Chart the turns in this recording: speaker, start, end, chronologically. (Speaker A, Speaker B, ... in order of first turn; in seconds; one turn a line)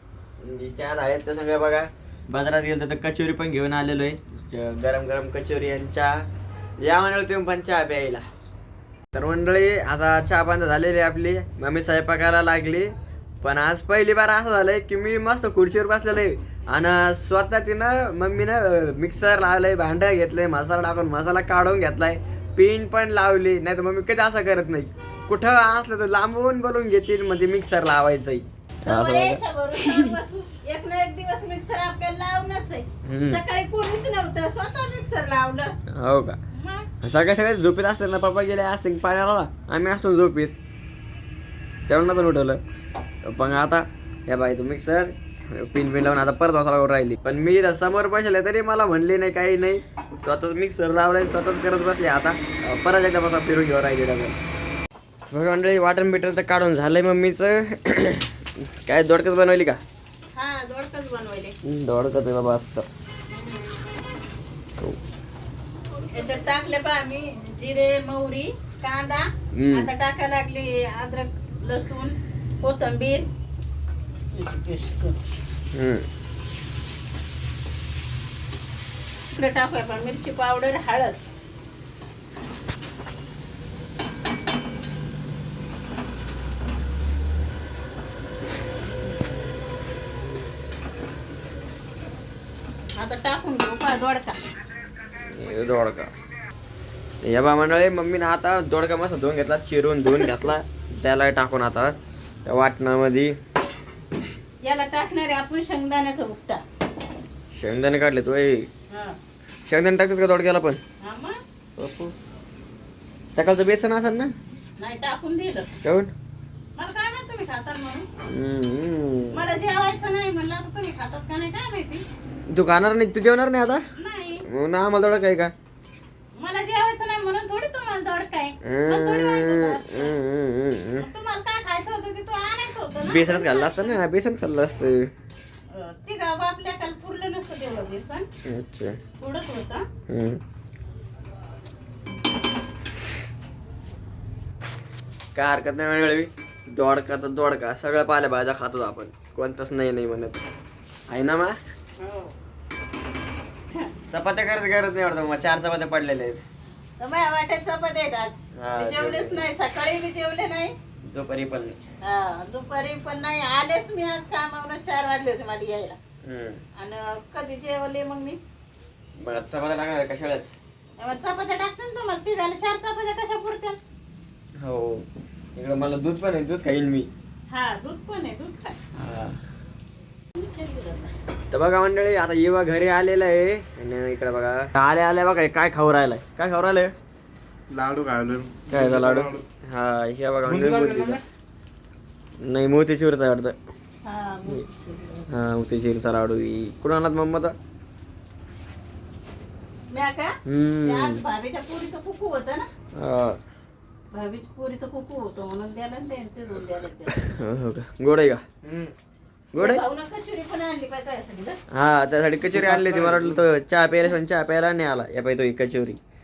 Speaker A: 0.4-6.2
Speaker A: 6.8-8.2
Speaker A: 9.1-30.1
Speaker B: 28.8-35.7
Speaker A: 33.0-33.4
Speaker A: 35.9-36.4
Speaker B: 36.5-36.9
Speaker A: 37.0-40.5
Speaker A: 41.9-42.6
Speaker A: 43.2-54.4
Speaker A: 55.3-59.8
Speaker B: 60.3-61.5
Speaker A: 61.6-62.9
Speaker B: 63.3-63.8
Speaker B: 66.1-73.3
Speaker A: 69.5-69.9
Speaker B: 74.3-75.2
Speaker A: 75.7-76.0
Speaker B: 79.3-81.2
Speaker B: 93.0-94.4
Speaker A: 95.3-96.1
Speaker A: 97.2-101.9
Speaker A: 102.5-103.3
Speaker B: 104.6-106.6
Speaker A: 107.5-108.7
Speaker B: 108.9-109.2
Speaker A: 109.7-110.8
Speaker B: 111.0-111.4
Speaker A: 111.8-112.1
Speaker A: 113.3-114.3
Speaker B: 114.8-115.7
Speaker A: 115.8-116.1
Speaker B: 116.8-118.1
Speaker A: 118.3-119.4
Speaker B: 119.3-122.0
Speaker A: 122.5-123.8
Speaker B: 124.0-124.4
Speaker A: 124.5-125.5
Speaker B: 126.4-130.2
Speaker A: 128.6-131.1
Speaker B: 131.0-134.0
Speaker A: 133.0-135.1
Speaker B: 135.7-138.3
Speaker A: 138.4-139.0
Speaker B: 139.2-139.9
Speaker A: 140.1-140.4
Speaker A: 145.3-150.4
Speaker A: 151.1-151.6
Speaker B: 152.0-152.3
Speaker A: 154.1-156.4
Speaker B: 157.0-160.7
Speaker A: 158.5-159.4
Speaker A: 161.1-161.8
Speaker B: 162.0-166.0
Speaker A: 166.2-166.6
Speaker B: 166.8-168.4
Speaker A: 169.2-170.5
Speaker B: 171.0-173.8
Speaker A: 174.6-177.1
Speaker B: 177.5-178.8
Speaker A: 178.9-179.4
Speaker B: 180.3-181.1
Speaker A: 181.5-186.9
Speaker C: 187.7-189.4
Speaker A: 188.7-191.2
Speaker C: 190.5-191.2
Speaker A: 192.4-193.6
Speaker B: 194.0-195.3
Speaker A: 195.3-197.5
Speaker B: 199.9-202.7
Speaker A: 200.4-201.2
Speaker A: 202.9-203.4
Speaker B: 204.1-207.3
Speaker A: 207.1-208.4
Speaker C: 208.6-208.9
Speaker A: 209.5-209.8
Speaker B: 209.6-211.6
Speaker A: 211.7-216.0
Speaker C: 212.5-213.3